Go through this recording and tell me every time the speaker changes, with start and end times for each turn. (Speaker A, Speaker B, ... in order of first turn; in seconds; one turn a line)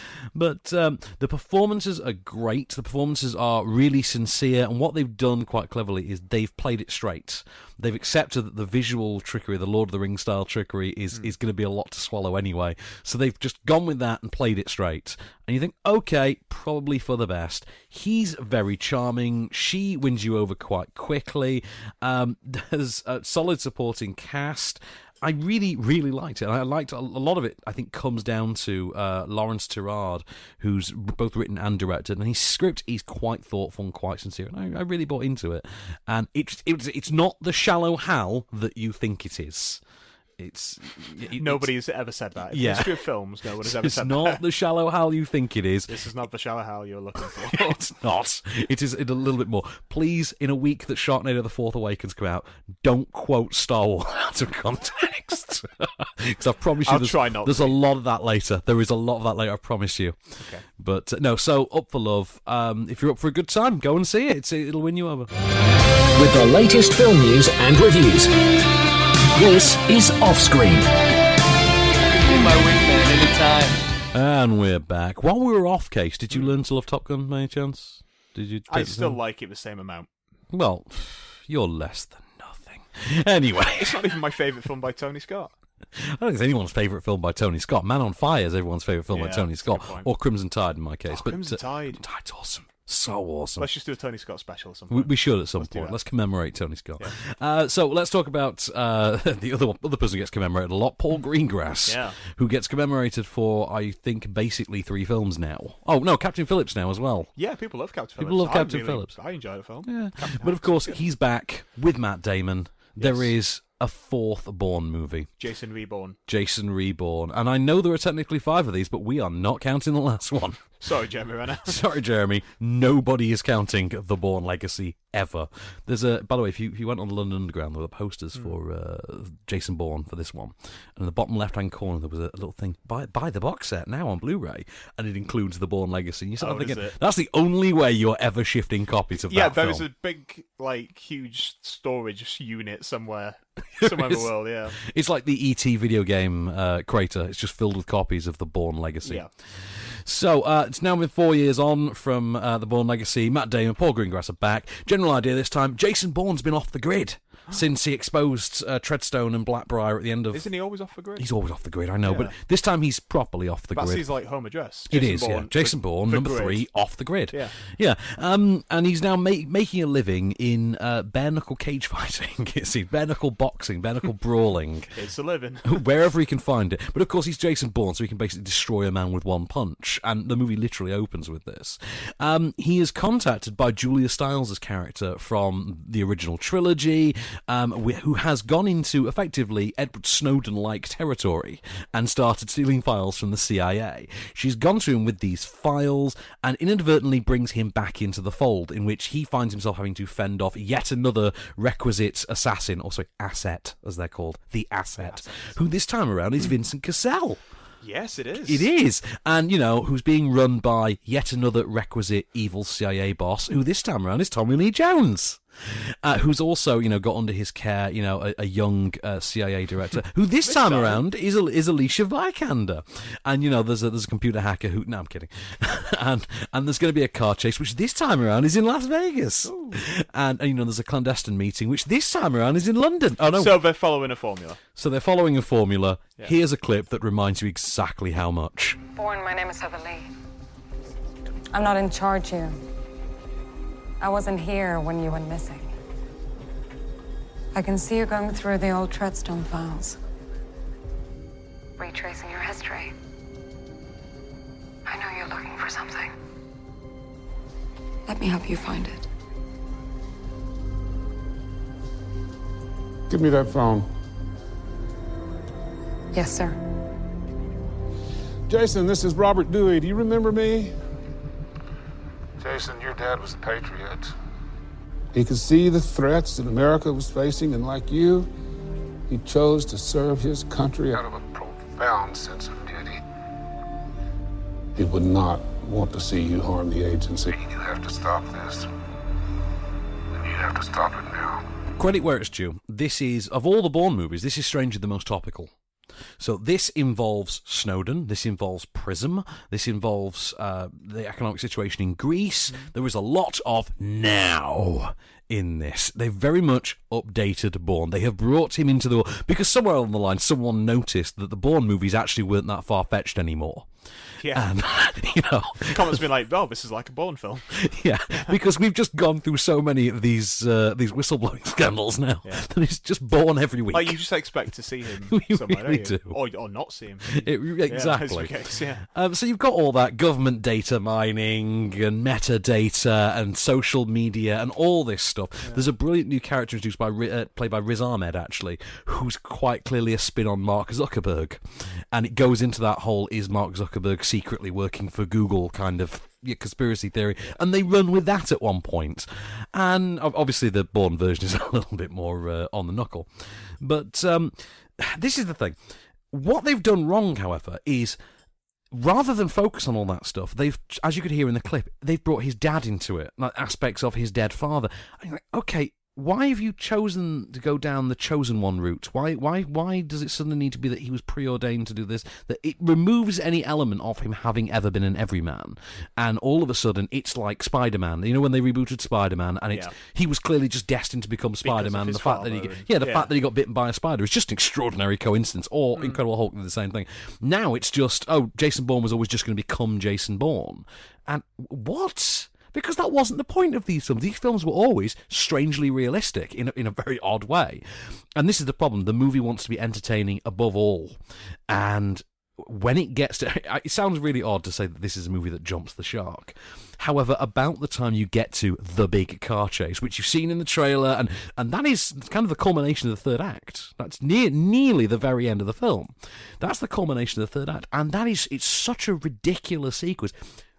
Speaker A: 0.3-39.8
Speaker A: 40.4-41.7
Speaker B: 41.4-44.4
Speaker A: 42.5-43.0
Speaker A: 43.6-45.9
Speaker B: 45.9-47.8
Speaker A: 47.5-65.3
Speaker B: 56.8-57.8
Speaker B: 60.4-60.6
Speaker C: 66.1-68.3
Speaker C: 69.3-70.9
Speaker A: 74.1-79.2
Speaker B: 78.7-80.1
Speaker A: 80.5-84.1
Speaker B: 83.7-85.5
Speaker A: 86.0-93.7
Speaker B: 89.1-90.1
Speaker B: 91.1-92.0
Speaker B: 93.6-96.0
Speaker A: 94.9-107.3
Speaker B: 101.8-102.2
Speaker B: 107.4-111.0
Speaker A: 108.2-109.1
Speaker A: 109.8-115.3
Speaker B: 113.0-113.3
Speaker B: 115.4-116.2
Speaker A: 116.3-120.7
Speaker B: 120.8-121.8
Speaker A: 121.6-139.8
Speaker B: 136.4-136.9
Speaker B: 139.3-144.8
Speaker A: 143.8-160.5
Speaker B: 149.0-149.3
Speaker B: 160.3-161.3
Speaker A: 161.2-164.1
Speaker B: 162.0-162.3
Speaker B: 163.7-166.7
Speaker A: 164.9-174.9
Speaker B: 167.3-167.6
Speaker B: 174.9-175.8
Speaker A: 175.7-207.4
Speaker B: 205.0-205.6
Speaker B: 207.8-208.7
Speaker A: 208.4-233.6
Speaker B: 220.4-221.0
Speaker B: 229.4-229.8
Speaker B: 233.2-234.6
Speaker A: 234.8-238.8
Speaker D: 238.9-240.1
Speaker D: 241.5-242.6
Speaker D: 244.0-245.7
Speaker D: 247.5-250.0
Speaker D: 251.8-252.9
Speaker D: 254.8-256.1
Speaker D: 258.1-259.1
Speaker E: 263.1-263.9
Speaker D: 266.1-266.6
Speaker E: 268.5-270.7
Speaker F: 272.4-274.1
Speaker E: 275.1-278.3
Speaker E: 279.1-281.0
Speaker F: 280.9-283.0
Speaker E: 284.8-287.3
Speaker F: 287.3-288.7
Speaker F: 290.1-291.4
Speaker A: 291.8-295.5
Speaker A: 296.2-313.7
Speaker B: 314.2-314.5
Speaker A: 314.3-316.0
Speaker B: 315.7-317.4
Speaker A: 317.5-324.0
Speaker B: 318.1-318.4
Speaker B: 323.7-328.8
Speaker A: 325.1-326.2
Speaker A: 327.1-328.3
Speaker A: 328.9-341.4
Speaker A: 341.9-353.1
Speaker A: 353.6-355.6
Speaker A: 356.1-358.0
Speaker A: 358.7-397.6
Speaker B: 381.4-383.1
Speaker A: 398.1-420.1